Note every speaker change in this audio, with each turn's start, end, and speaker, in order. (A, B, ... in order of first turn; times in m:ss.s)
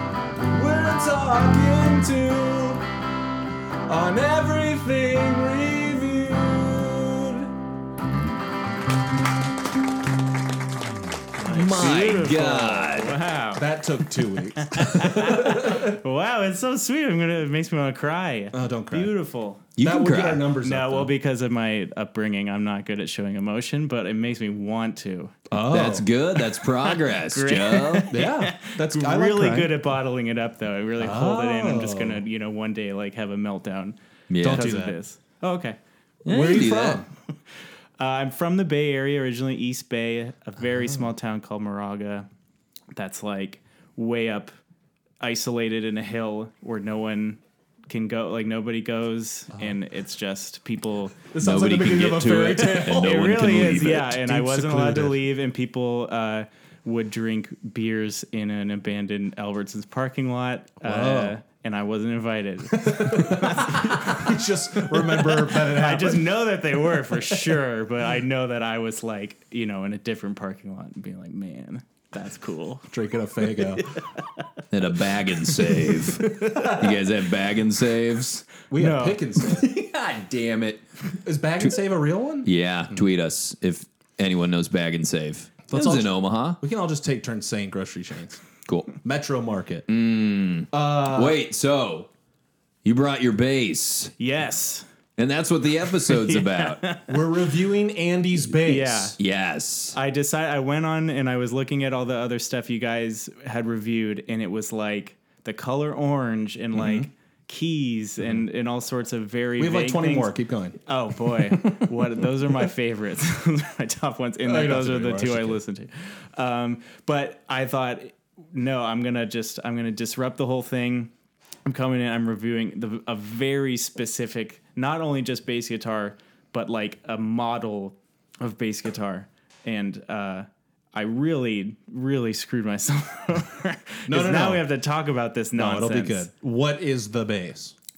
0:00.5-0:02.8 A
0:03.9-0:07.5 A
0:11.4-0:13.6 B
0:11.4-0:13.1 C
0:11.4-0:11.7 A
0:13.6-0:16.0 A
0:14.6-0:19.7 B
0:18.5-0:19.1 A
0:19.8-0:20.4 C
0:19.8-0:21.1 A
0:20.6-0:25.4 B
0:25.5-0:26.0 A
0:25.7-0:28.1 C
0:26.6-0:34.0 B
0:28.1-0:29.7 A
0:31.0-0:32.2 A
0:34.3-0:34.8 C
0:34.4-0:34.9 A
0:34.5-0:35.8 B
0:36.2-0:37.0 C
0:36.2-0:37.1 A
0:38.0-0:42.3 B
0:42.9-0:44.5 B
0:45.2-0:51.2 B
0:51.3-0:55.2 A
0:51.4-0:54.1 C
0:52.6-1:14.4 B
1:00.8-1:01.4 A
1:02.7-1:06.3 A
1:12.9-1:13.9 A
1:14.7-1:18.5 C
1:15.8-1:16.9 A
1:18.7-1:19.7 A
1:18.7-1:19.3 B
1:19.5-1:20.8 C
1:21.2-1:22.5 A
1:22.4-1:26.6 C
1:25.7-1:28.4 A
1:28.6-1:28.9 C
1:29.0-1:29.8 A
1:29.9-1:32.1 C
1:30.7-1:31.4 A
1:32.8-1:34.1 C
1:34.2-1:34.8 B
1:35.2-1:36.8 C
1:36.0-1:37.2 B
1:37.1-1:39.1 A
1:38.6-1:39.2 B
1:39.2-1:40.0 C
1:39.9-1:50.3 B
1:46.7-1:47.1 A
1:49.6-1:51.9 A
1:50.8-2:01.1 B
1:54.4-1:55.6 A
2:01.6-2:16.3 B
2:14.1-2:14.6 A
2:15.6-2:17.7 A